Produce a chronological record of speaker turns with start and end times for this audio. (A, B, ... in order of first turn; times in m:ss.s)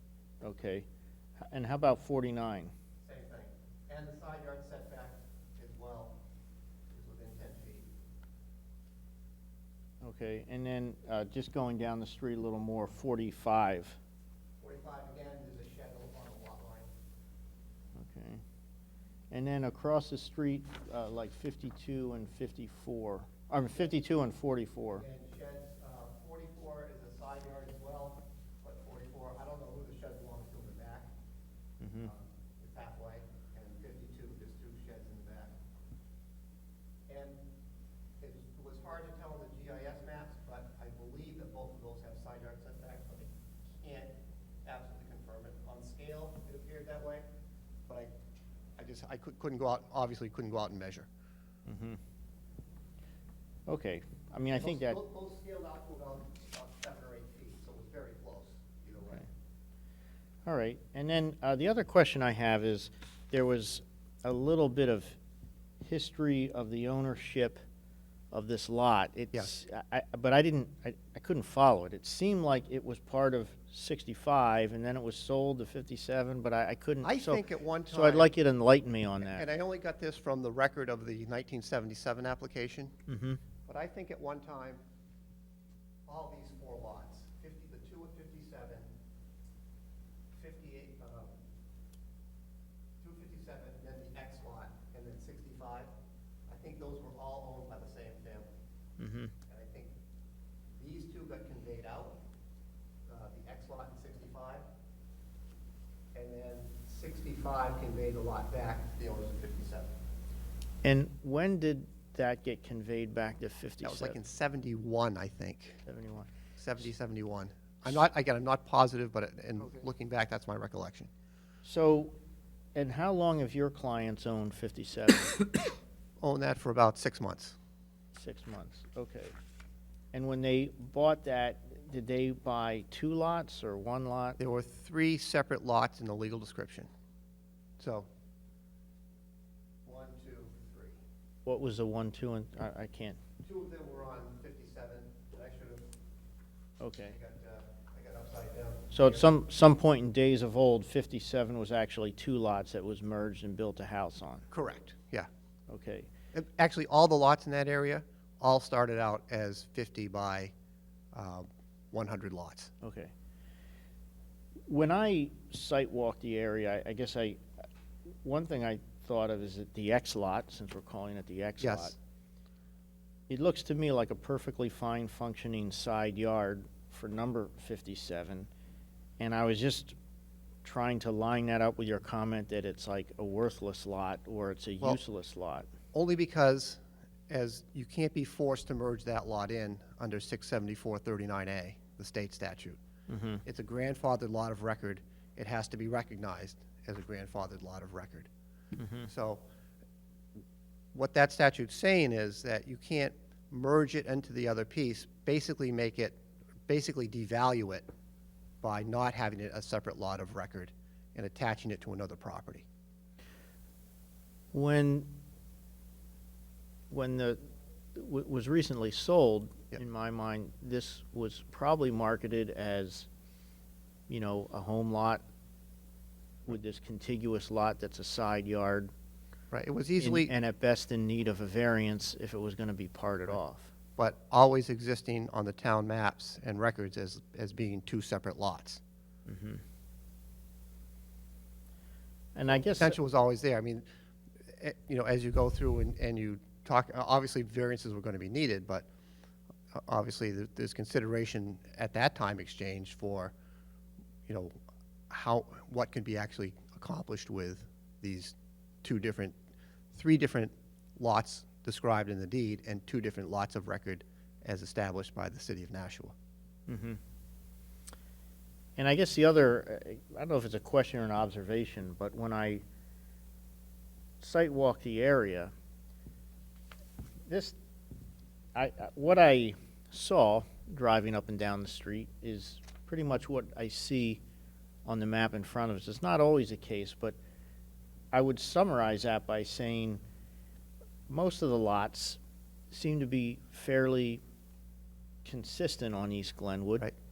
0:00.4-0:00.9 A
0:01.4-0:02.7 A
0:03.0-0:06.2 B
0:06.9-0:07.9 B
0:10.0-0:14.0 A
0:14.6-0:16.9 B
0:18.0-0:18.4 A
0:19.3-0:25.0 A
0:24.9-0:31.1 B
0:31.8-0:32.1 A
0:32.0-0:35.5 B
0:37.1-0:37.4 B
0:38.2-0:44.1 B
0:44.6-0:47.2 B
0:47.9-0:48.1 B
0:48.8-0:51.1 B
0:51.7-0:52.0 A
0:53.7-0:55.0 A
0:54.6-0:59.3 B
1:00.5-1:05.2 A
1:05.8-1:07.6 A
1:08.3-1:19.5 A
1:17.0-1:18.3 B
1:19.2-1:22.9 B
1:23.1-1:23.4 A
1:23.7-1:24.8 B
1:26.1-1:28.9 B
1:30.3-1:31.3 B
1:33.0-1:35.9 B
1:36.5-1:38.5 B
1:39.0-1:39.3 A
1:39.5-1:39.9 B
1:40.8-1:42.2 B
1:43.1-1:44.6 B
1:46.1-1:49.9 B
1:50.8-1:54.2 A
1:53.8-1:55.8 B
1:55.9-1:56.3 A
1:56.6-2:01.1 B
2:01.6-2:02.2 A
2:02.8-2:05.4 A
2:06.2-2:07.6 B
2:08.2-2:09.3 A
2:10.1-2:14.4 A
2:14.4-2:16.9 B
2:17.8-2:18.1 B
2:19.8-2:21.0 B
2:21.5-2:23.2 A
2:23.4-2:25.9 B
2:26.8-2:27.2 A
2:27.0-2:29.3 B
2:28.9-2:34.5 A
2:34.5-2:35.3 B
2:35.7-2:36.1 A
2:36.3-2:40.5 B
2:41.1-2:42.7 B
2:42.8-2:43.1 A
2:44.7-2:47.4 A
2:48.2-2:52.0 A
2:51.6-2:52.0 B
2:53.3-2:58.5 A
2:59.2-2:59.9 A
3:00.6-3:05.7 A
3:05.9-3:12.8 B
3:13.1-3:13.4 A
3:13.4-3:18.3 B
3:18.8-3:19.1 A
3:19.0-3:19.4 B
3:20.9-3:27.9 B
3:28.6-3:32.7 B
3:34.5-3:35.1 A
3:36.9-3:37.4 A
3:38.0-3:43.1 A
3:44.1-3:45.2 A
3:46.5-3:48.9 A
3:49.5-3:50.3 B
3:50.0-3:53.7 A
3:54.0-3:58.8 B
3:59.3-3:59.6 A
4:02.4-4:03.0 A
4:02.5-4:03.8 B
4:04.5-4:08.9 B
4:09.7-4:13.3 B
4:14.3-4:14.5 B
4:15.1-4:19.4 B
4:19.9-4:26.1 B
4:26.7-4:27.0 A
4:28.8-4:32.6 A
4:34.2-4:35.5 A
4:37.3-4:37.6 A
4:38.6-4:44.2 A
4:44.8-4:47.2 A
4:48.1-4:50.0 A
4:51.1-4:52.2 A
4:52.7-4:54.2 A
4:55.2-4:56.9 A